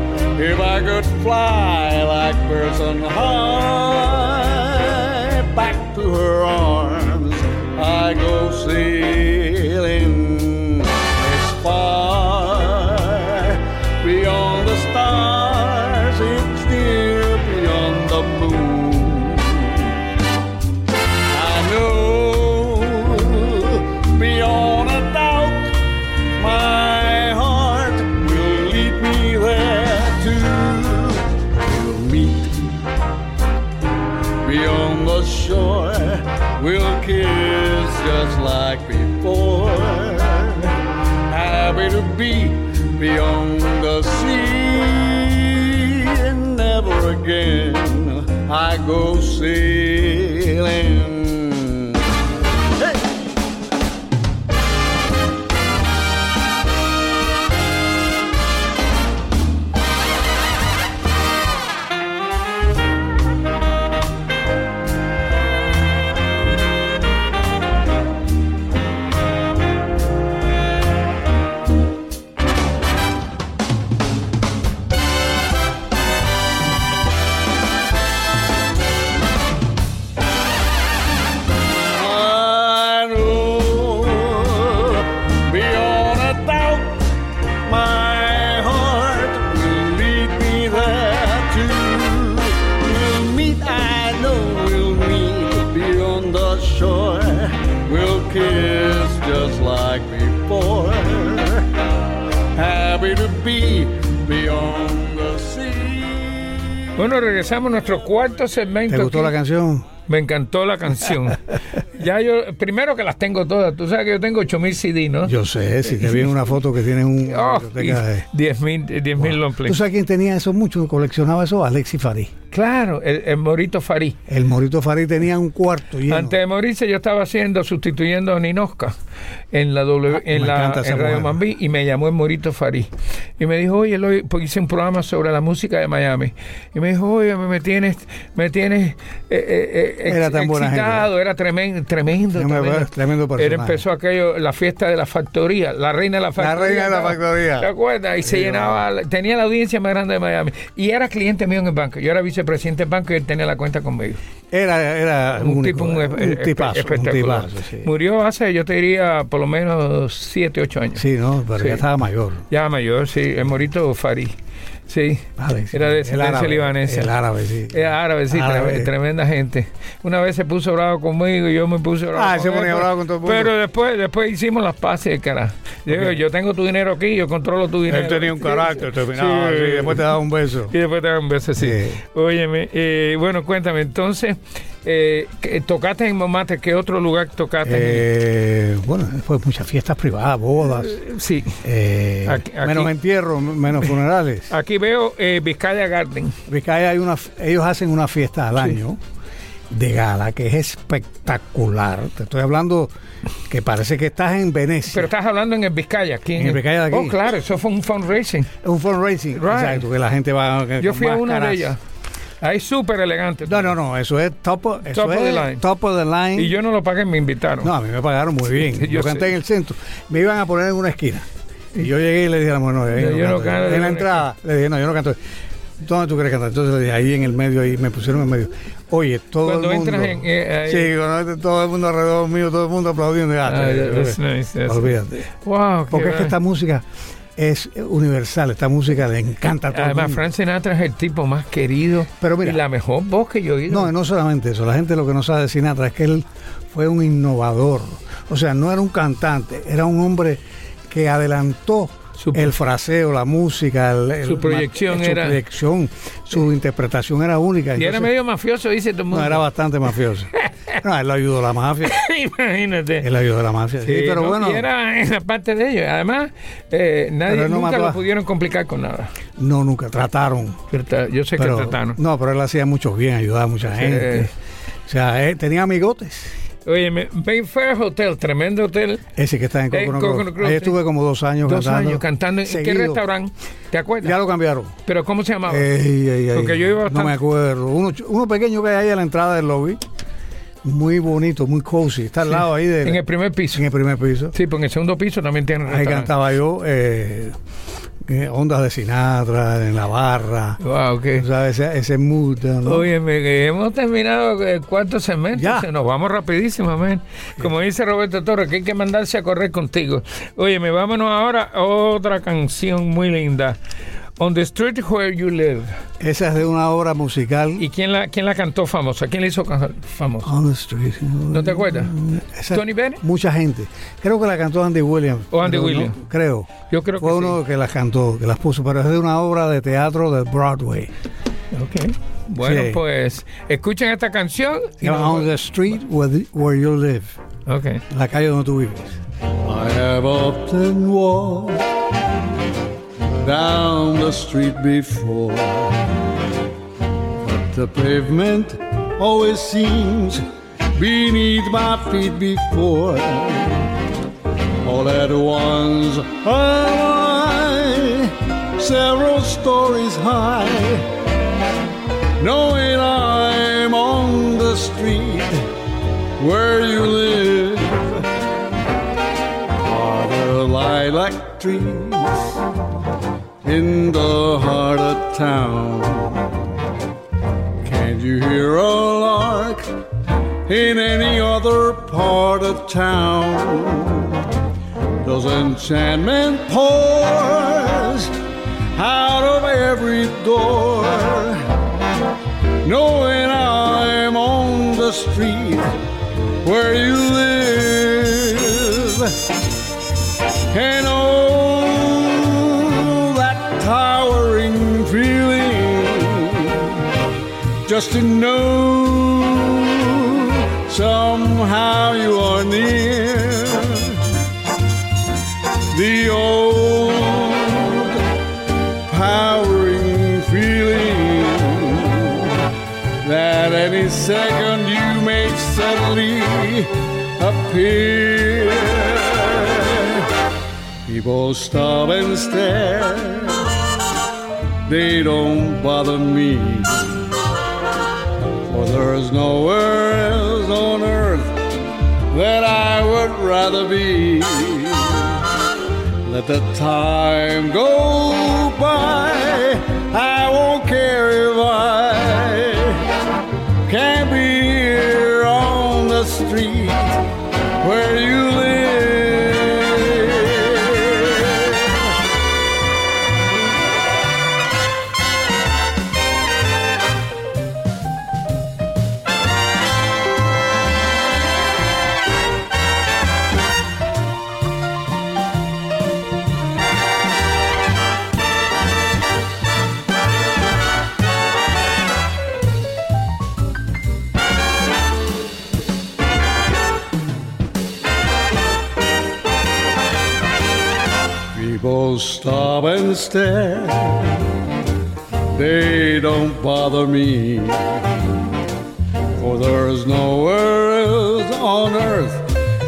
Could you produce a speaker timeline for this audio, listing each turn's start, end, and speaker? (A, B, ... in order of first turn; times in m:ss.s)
0:00.4-0:20.0 A
0:21.3-0:25.8 A
0:26.4-0:32.8 A
0:34.4-0:40.8 A
0:41.3-0:52.0 A
1:21.9-1:27.0 A
1:27.6-1:41.7 A
1:42.5-1:46.6 A
1:47.0-1:49.3 B
1:48.9-1:49.9 C
1:50.1-1:55.3 B
1:55.2-1:58.2 C
1:57.2-1:59.8 B
1:59.2-2:02.3 C
2:02.5-2:04.2 B
2:04.3-2:06.4 C
2:06.1-2:09.0 B
2:09.5-2:34.2 B
2:10.1-2:11.4 C
2:20.0-2:21.1 C
2:22.3-2:23.8 C
2:26.4-2:27.7 C
2:28.2-2:28.8 C
2:34.5-2:37.9 C
2:35.4-2:41.0 B
2:41.0-2:42.4 C
2:41.6-2:41.8 B
2:42.5-2:44.3 B
2:44.9-2:47.1 B
2:45.4-2:48.9 C
2:47.7-3:00.2 B
2:52.1-2:53.5 C
2:55.9-2:56.2 C
2:57.8-3:00.7 C
3:00.7-3:08.0 B
3:01.6-3:02.0 C
3:07.6-3:11.0 C
3:10.8-3:11.6 B
3:11.6-3:14.5 C
3:12.2-3:12.9 B
3:14.5-3:16.4 B
3:16.5-3:19.0 C
3:19.7-3:22.9 C
3:23.5-3:25.1 C
3:24.9-3:28.5 B
3:26.4-3:27.2 C
3:28.6-3:31.7 C
3:29.3-3:29.8 B
3:30.8-3:31.8 B
3:32.4-3:33.7 B
3:33.4-3:36.5 C
3:34.9-3:35.6 B
3:36.4-3:37.7 B
3:37.6-3:45.2 C
3:38.6-3:39.3 B
3:42.9-3:44.2 B
3:45.8-3:55.3 C
3:49.4-3:50.9 B
3:53.4-3:56.4 B
3:55.9-3:56.8 C
3:57.4-4:00.2 C
3:59.7-4:03.9 B
4:02.2-4:02.6 C
4:03.7-4:18.1 C
4:12.2-4:12.5 B
4:14.2-4:15.4 B
4:17.8-4:19.4 B
4:19.1-4:22.0 C
4:20.4-4:20.7 B
4:21.8-4:23.1 B
4:23.0-4:24.6 C
4:23.8-4:29.1 B
4:27.3-4:28.0 C
4:29.4-4:30.6 C
4:30.7-4:32.0 B
4:31.4-4:34.3 C
4:33.7-4:34.3 B
4:34.9-4:36.3 C
4:36.6-4:39.0 B
4:39.2-4:43.0 C
4:39.7-4:40.8 B
4:41.4-4:44.2 B
4:44.0-4:44.7 C
4:44.8-4:45.7 B
4:45.5-4:49.8 C
4:46.3-4:47.2 B
4:50.6-4:54.3 C
4:52.8-4:53.6 B
4:54.3-4:56.1 B
4:55.6-4:57.3 C
4:58.0-5:00.6 C
5:00.6-5:01.2 B
5:01.1-5:02.9 C
5:02.6-5:13.6 B
5:05.3-5:05.7 C
5:14.2-5:15.8 B
5:16.0-5:17.6 C
5:17.6-5:20.3 B
5:20.2-5:30.9 C
5:21.3-5:21.9 B
5:22.5-5:23.0 B
5:25.3-5:26.0 B
5:26.7-5:27.4 B
5:31.5-5:35.3 B
5:32.4-5:32.8 C
5:34.8-5:37.2 C
5:37.4-5:37.8 B
5:37.9-5:39.0 C
5:39.4-5:41.7 A
5:43.2-5:45.9 A
5:47.2-5:53.7 A
5:54.6-6:00.9 A
6:02.2-6:05.4 A
6:06.2-6:08.1 A
6:09.6-6:12.4 A
6:13.4-6:16.4 A
6:17.6-6:19.8 A
6:20.4-6:24.2 A
6:25.0-6:28.1 A
6:28.7-6:31.4 A
6:32.6-6:35.7 A
6:36.4-6:39.2 A
6:40.5-6:46.8 A
6:47.6-6:54.0 A
6:55.7-6:58.0 A
6:58.9-7:02.4 A
7:03.0-7:10.1 A
7:10.8-7:13.5 A
7:14.6-7:17.1 A
7:18.4-7:21.5 A
7:22.1-7:25.2 A
7:26.0-7:32.8 A
7:33.7-7:37.0 A
7:37.6-7:41.9 A
8:11.3-8:14.3 A
8:15.3-8:18.0 A
8:19.2-8:22.4 A